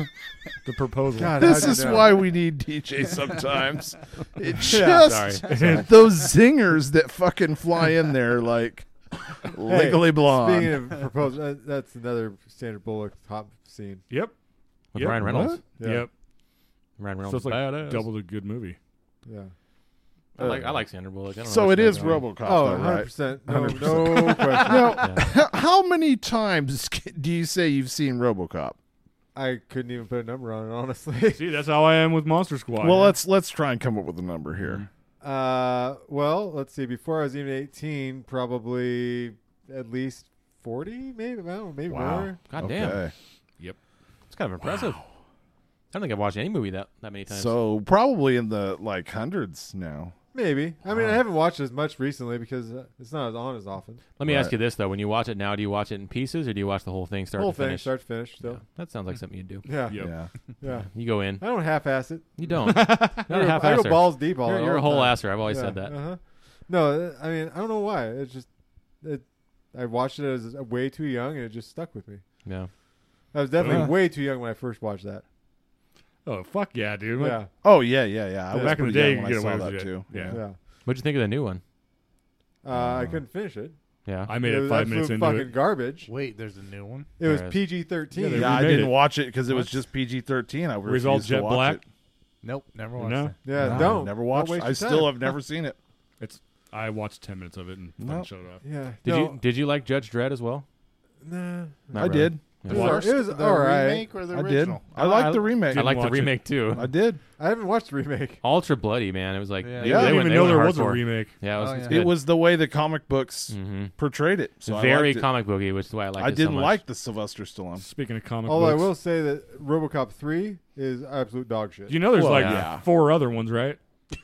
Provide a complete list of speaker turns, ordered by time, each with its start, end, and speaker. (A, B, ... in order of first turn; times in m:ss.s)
0:00.6-0:01.9 A
0:01.1-0:02.2 B
0:01.4-0:10.9 C
0:04.6-0:05.2 B
0:04.7-0:05.4 D
0:05.5-0:05.9 A
0:09.7-0:14.0 B
0:14.9-0:15.6 D
0:14.9-0:16.1 A
0:15.2-0:15.6 C
0:15.8-0:16.1 B
0:17.0-0:18.1 D
0:17.2-0:18.8 A
0:19.2-0:19.5 B
0:20.4-0:22.2 D
0:20.4-0:20.8 C
0:21.4-0:28.8 C
0:22.4-0:25.2 B
0:23.5-0:24.3 A
0:25.0-0:25.2 D
0:29.3-0:31.5 B
0:31.3-0:33.1 A
0:32.8-0:34.8 C
0:35.2-0:42.4 B
0:41.9-0:43.1 C
0:42.5-0:43.0 D
0:44.3-0:45.0 D
0:44.6-0:45.0 C
0:45.9-0:47.6 D
0:47.3-0:50.1 C
0:50.3-0:54.0 B
0:54.2-0:59.6 D
0:54.2-0:54.5 C
0:57.4-0:58.6 B
0:59.6-1:08.5 B
0:59.9-1:00.1 A
1:00.0-1:00.3 C
1:00.9-1:01.4 D
1:02.4-1:06.0 D
1:02.6-1:03.1 A
1:09.0-1:12.2 B
1:13.3-1:15.2 B
1:13.6-1:13.9 A
1:13.6-1:13.9 C
1:16.2-1:17.4 A
1:17.2-1:17.5 B
1:17.6-1:20.4 C
1:18.5-1:19.0 B
1:18.5-1:20.4 A
1:20.3-1:20.6 B
1:20.8-1:21.6 D
1:22.6-1:23.8 B
1:22.7-1:23.2 C
1:24.0-1:24.3 D
1:24.3-1:25.5 A
1:24.3-1:26.1 B
1:26.0-1:27.1 E
1:27.2-1:28.7 B
1:27.2-1:27.6 D
1:28.1-1:28.9 A
1:28.3-1:31.8 C
1:30.8-1:31.8 A
1:32.4-1:33.4 E
1:33.0-1:33.9 A
1:33.4-1:35.3 B
1:33.6-1:35.8 C
1:33.6-1:34.0 D
1:36.2-1:38.6 A
1:38.0-1:38.3 C
1:38.6-1:39.4 B
1:39.0-1:40.6 D
1:41.2-1:44.1 B
1:41.9-1:43.0 D
1:41.9-1:42.6 C
1:42.7-1:44.8 E
1:44.3-1:45.9 C
1:44.9-1:46.9 D
1:45.7-1:46.4 A
1:46.7-1:47.2 C
1:47.4-1:48.4 B
1:48.4-1:52.1 D
1:49.6-1:50.0 E
1:49.8-1:50.3 C
1:49.8-1:51.3 A
1:51.5-1:52.1 E
1:51.9-1:55.3 C
1:53.5-1:53.9 D
1:54.6-1:56.8 D
1:56.2-1:57.8 C
1:57.8-1:58.9 A
1:58.4-2:02.0 B
2:01.9-2:03.8 A
2:02.1-2:02.8 C
2:02.2-2:02.7 D